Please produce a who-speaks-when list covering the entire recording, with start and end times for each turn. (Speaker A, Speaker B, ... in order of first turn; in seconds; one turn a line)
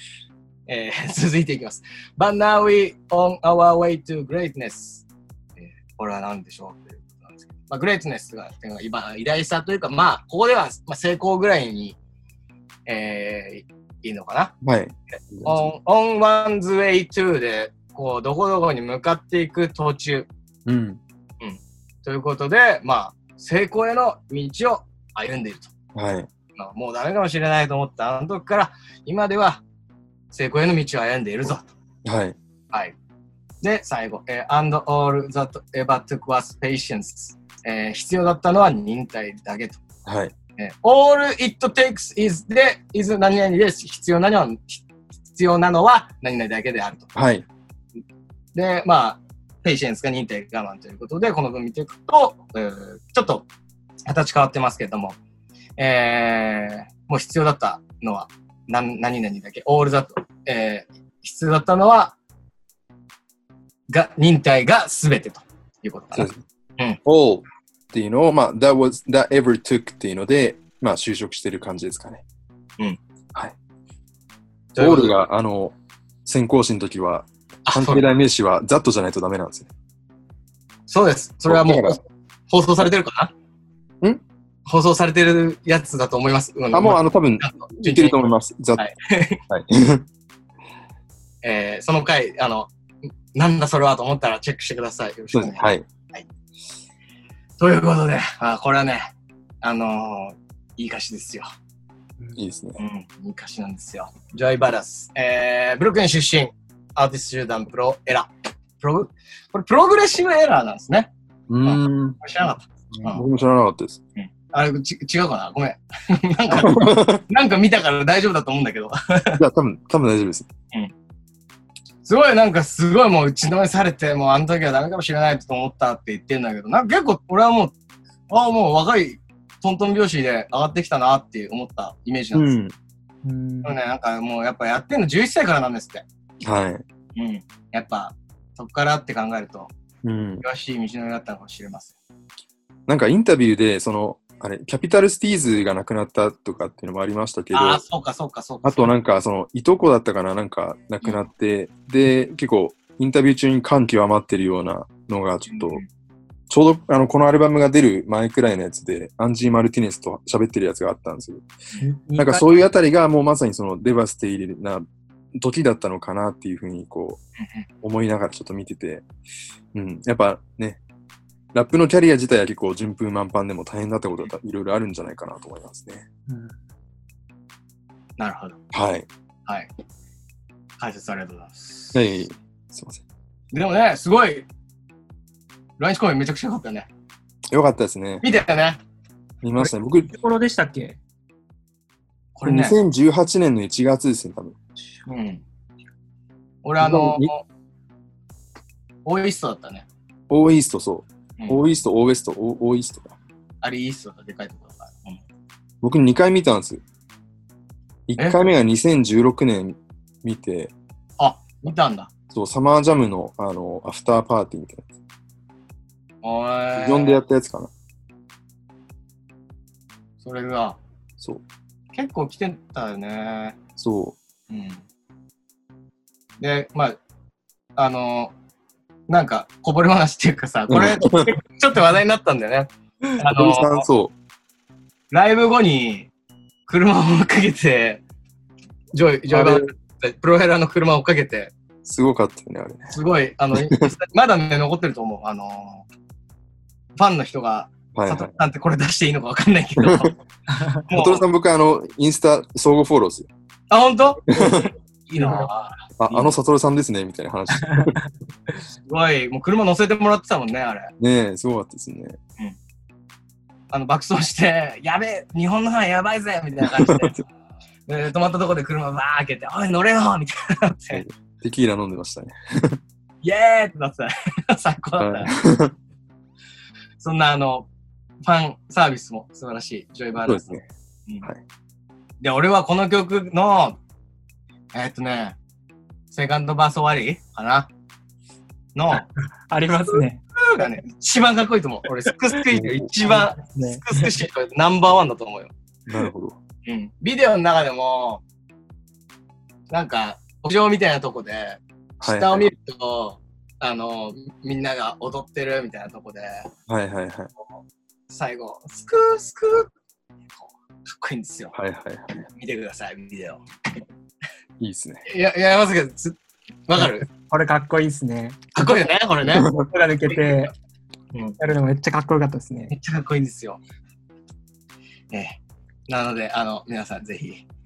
Speaker A: 0.7-5.1
Speaker A: 5.6-12.0
Speaker A: 12.9-14.5
Speaker B: 14.6-15.7
Speaker A: 15.4-20.3
Speaker B: 20.7-21.0
Speaker A: 21.4-25.7
Speaker B: 25.9-26.3
Speaker A: 26.6-29.6
Speaker A: 30.3-31.7
Speaker B: 32.0-32.4
Speaker A: 33.6-39.8
Speaker B: 40.1-40.3
Speaker A: 40.6-47.1
Speaker B: 47.1-47.5
Speaker A: 48.5-53.5
Speaker A: 54.1-55.2
Speaker A: 55.8-62.1
Speaker A: 63.9-67.0
Speaker B: 66.2-66.4
Speaker B: 67.0-72.2
Speaker A: 74.8-75.2
Speaker B: 74.8-79.7
Speaker A: 77.7-78.2
Speaker A: 80.9-83.3
Speaker B: 81.5-82.0
Speaker A: 84.7-89.4
Speaker B: 86.7-88.8
Speaker B: 89.5-90.1
Speaker A: 91.4-92.7
Speaker A: 93.3-96.3
Speaker B: 95.3-95.8
Speaker A: 97.6-99.1
Speaker A: 99.6-101.5
Speaker B: 102.4-102.8
Speaker A: 102.8-111.1
Speaker B: 111.5-112.2
Speaker A: 111.6-113.2
Speaker B: 113.0-114.0
Speaker A: 114.2-119.4
Speaker B: 116.5-117.2
Speaker B: 119.4-120.5
Speaker A: 122.0-127.7
Speaker A: 128.3-132.5
Speaker B: 132.3-132.8
Speaker C: 133.2-133.8
Speaker A: 133.6-136.0
Speaker B: 136.4-136.8
Speaker A: 137.2-139.7
Speaker B: 140.0-140.4
Speaker A: 140.4-141.9
Speaker B: 142.9-147.8
Speaker A: 147.5-148.9
Speaker B: 148.6-155.8
Speaker A: 155.5-155.8
Speaker B: 156.5-161.4
Speaker C: 161.8-162.7
Speaker B: 162.2-167.2
Speaker B: 167.8-169.1
Speaker B: 169.7-170.8
Speaker B: 171.5-176.1
Speaker C: 176.3-176.6
Speaker A: 178.2-178.6
Speaker B: 178.7-179.1
Speaker A: 180.8-181.9
Speaker B: 181.9-183.1
Speaker A: 183.5-184.5
Speaker A: 185.8-186.9
Speaker B: 187.5-188.2
Speaker A: 188.2-188.8
Speaker B: 189.4-190.1
Speaker C: 189.6-191.0
Speaker A: 192.3-192.8
Speaker B: 192.4-194.6
Speaker A: 195.1-195.4
Speaker A: 196.6-197.4
Speaker B: 196.8-197.3
Speaker A: 199.1-199.9
Speaker B: 200.3-203.2
Speaker A: 201.4-201.6
Speaker A: 203.6-205.2
Speaker B: 205.8-206.8
Speaker B: 208.1-210.7
Speaker A: 211.2-212.1
Speaker B: 212.3-214.9
Speaker A: 216.2-217.2
Speaker B: 216.8-217.7
Speaker A: 220.2-220.8
Speaker A: 221.9-223.6
Speaker B: 223.8-224.2
Speaker A: 224.5-224.8
Speaker A: 226.4-227.0
Speaker A: 227.8-228.3
Speaker A: 229.1-233.9
Speaker B: 230.7-231.3
Speaker B: 233.3-234.1
Speaker A: 235.1-236.1
Speaker A: 236.7-238.0
Speaker A: 238.9-241.5
Speaker B: 239.3-239.7
Speaker B: 241.8-242.9
Speaker A: 242.9-245.8
Speaker B: 243.6-243.9
Speaker A: 247.0-250.2
Speaker B: 247.9-248.3
Speaker B: 249.8-250.1
Speaker A: 250.9-251.3
Speaker B: 250.9-253.3
Speaker A: 253.7-256.4
Speaker B: 254.3-254.7
Speaker C: 255.2-255.5
Speaker B: 256.0-258.0
Speaker A: 258.8-260.9
Speaker B: 261.0-262.2
Speaker A: 263.7-267.3
Speaker B: 266.8-267.1
Speaker A: 267.9-271.0
Speaker B: 270.9-272.8
Speaker A: 273.2-275.3
Speaker B: 275.0-275.7
Speaker A: 277.0-277.7
Speaker A: 278.2-280.5
Speaker B: 280.2-280.7
Speaker A: 282.2-283.8
Speaker A: 284.7-285.4
Speaker A: 286.1-287.7
Speaker A: 288.8-289.0
Speaker C: 288.9-290.2
Speaker A: 289.9-295.5
Speaker B: 292.5-292.9
Speaker C: 293.0-294.1
Speaker B: 295.9-296.4
Speaker A: 296.7-298.2
Speaker A: 299.7-306.5
Speaker B: 302.0-302.5
Speaker B: 306.7-307.3
Speaker A: 308.1-309.7
Speaker A: 310.3-311.5
Speaker B: 311.5-312.3
Speaker A: 312.3-313.4
Speaker B: 314.6-315.0
Speaker A: 315.1-317.1
Speaker C: 316.8-318.7
Speaker A: 318.5-319.5
Speaker B: 319.3-319.7
Speaker C: 319.4-320.5
Speaker A: 321.1-321.4
Speaker C: 321.4-322.7
Speaker A: 322.7-323.6
Speaker A: 325.1-327.4